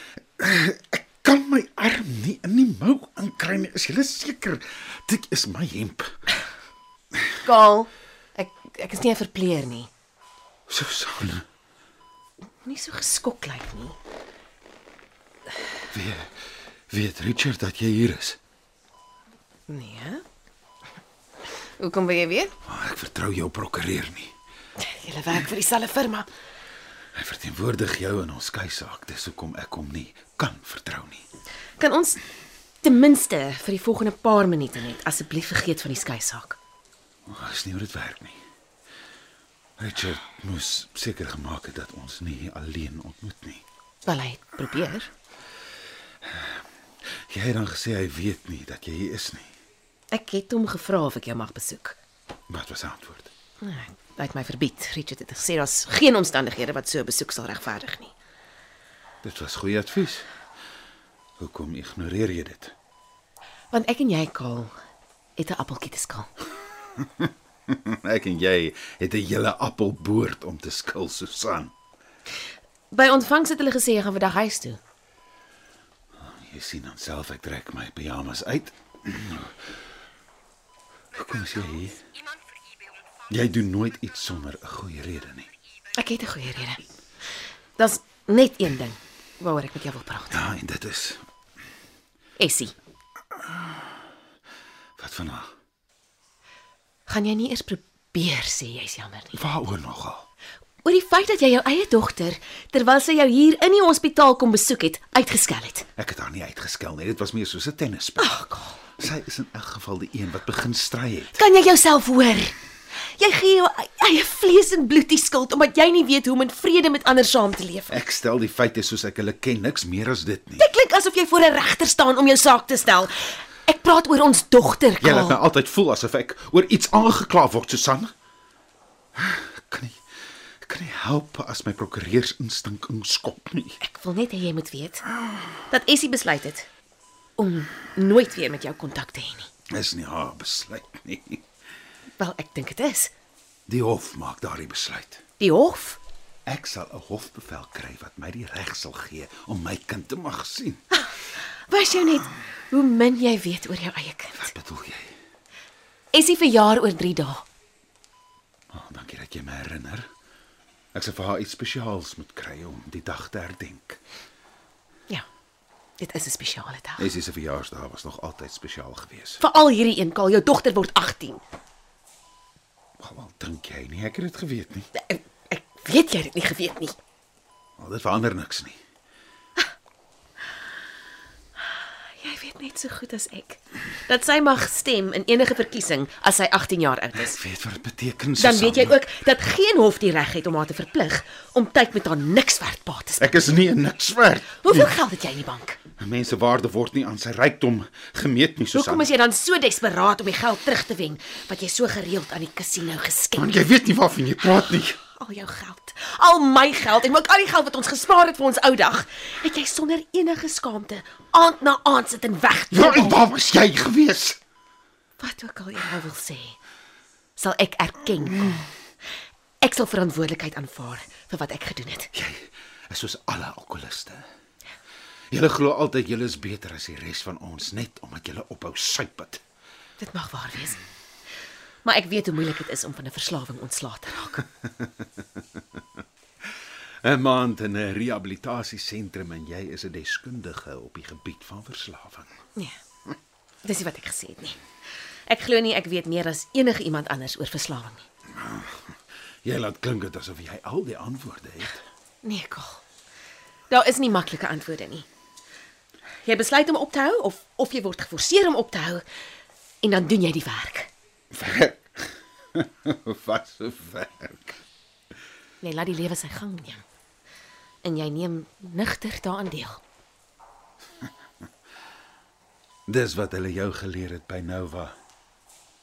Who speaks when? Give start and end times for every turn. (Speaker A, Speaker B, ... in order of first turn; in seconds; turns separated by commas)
Speaker A: 0.4-6.1, Speaker B: 7.4-9.9, Speaker A: 10.7-11.4, Speaker B: 12.6-13.9, Speaker A: 15.9-16.3, Speaker A: 16.9-18.4, Speaker B: 19.7-20.2, Speaker B: 21.8-22.5, Speaker A: 22.6-24.3, Speaker B: 24.8-26.3, Speaker A: 27.1-31.2, Speaker B: 31.8-32.2, Speaker B: 32.8-36.6, Speaker A: 37.3-38.4, Speaker A: 39.8-43.6, Speaker B: 44.0-45.1, Speaker A: 46.2-46.6, Speaker A: 47.3-49.5, Speaker B: 50.1-52.0, Speaker A: 52.5-53.3, Speaker B: 53.6-58.1, Speaker A: 59.2-60.3, Speaker A: 61.4-62.7, Speaker B: 63.7-64.7, Speaker B: 65.3-66.3, Speaker A: 67.0-71.7, Speaker B: 72.9-74.8, Speaker A: 76.2-79.5, Speaker A: 81.1-82.0, Speaker A: 83.3-85.5, Speaker B: 85.9-86.8, Speaker B: 87.8-90.4, Speaker A: 90.3-91.2, Speaker B: 92.4-92.7, Speaker A: 95.0-95.5, Speaker B: 97.1-99.4, Speaker A: 99.3-100.2, Speaker B: 100.8-105.9, Speaker A: 106.0-108.3, Speaker B: 108.2-108.8, Speaker A: 109.0-111.4, Speaker B: 111.3-112.5, Speaker B: 113.2-118.0, Speaker A: 117.9-120.6, Speaker B: 120.6-125.4, Speaker A: 125.0-128.1, Speaker A: 129.2-130.0, Speaker A: 130.6-133.8, Speaker B: 133.8-135.0, Speaker B: 135.7-136.7, Speaker B: 137.4-139.5, Speaker A: 139.7-141.4, Speaker B: 142.2-143.1, Speaker A: 143.7-145.2, Speaker B: 145.4-146.0, Speaker A: 146.4-150.8, Speaker B: 151.7-154.5, Speaker A: 154.3-155.1, Speaker B: 156.1-157.4, Speaker A: 158.7-160.1, Speaker A: 160.9-164.0, Speaker B: 166.0-167.1, Speaker A: 167.0-169.4, Speaker B: 169.4-171.4, Speaker A: 173.0-174.9, Speaker B: 174.9-176.9, Speaker A: 177.8-178.8, Speaker B: 182.2-187.4, Speaker A: 187.1-189.0, Speaker B: 188.4-193.6, Speaker A: 193.2-194.9, Speaker B: 194.6-195.8, Speaker A: 196.0-199.1, Speaker B: 198.7-203.6, Speaker A: 203.3-205.0, Speaker B: 205.0-213.2, Speaker A: 212.7-214.4, Speaker B: 215.2-216.6, Speaker B: 217.4-218.7, Speaker B: 219.6-222.1, Speaker A: 222.1-224.2, Speaker A: 225.3-229.4, Speaker B: 230.0-230.8, Speaker B: 231.8-234.4, Speaker A: 234.6-235.2, Speaker A: 237.0-242.3, Speaker B: 243.6-244.6, Speaker B: 245.3-248.0, Speaker A: 248.4-248.8, Speaker A: 249.4-251.8, Speaker B: 252.2-252.8, Speaker B: 253.7-255.1, Speaker B: 256.2-259.0, Speaker B: 259.8-260.9, Speaker A: 261.3-264.6, Speaker B: 265.6-266.8, Speaker B: 267.8-269.8, Speaker A: 272.9-274.9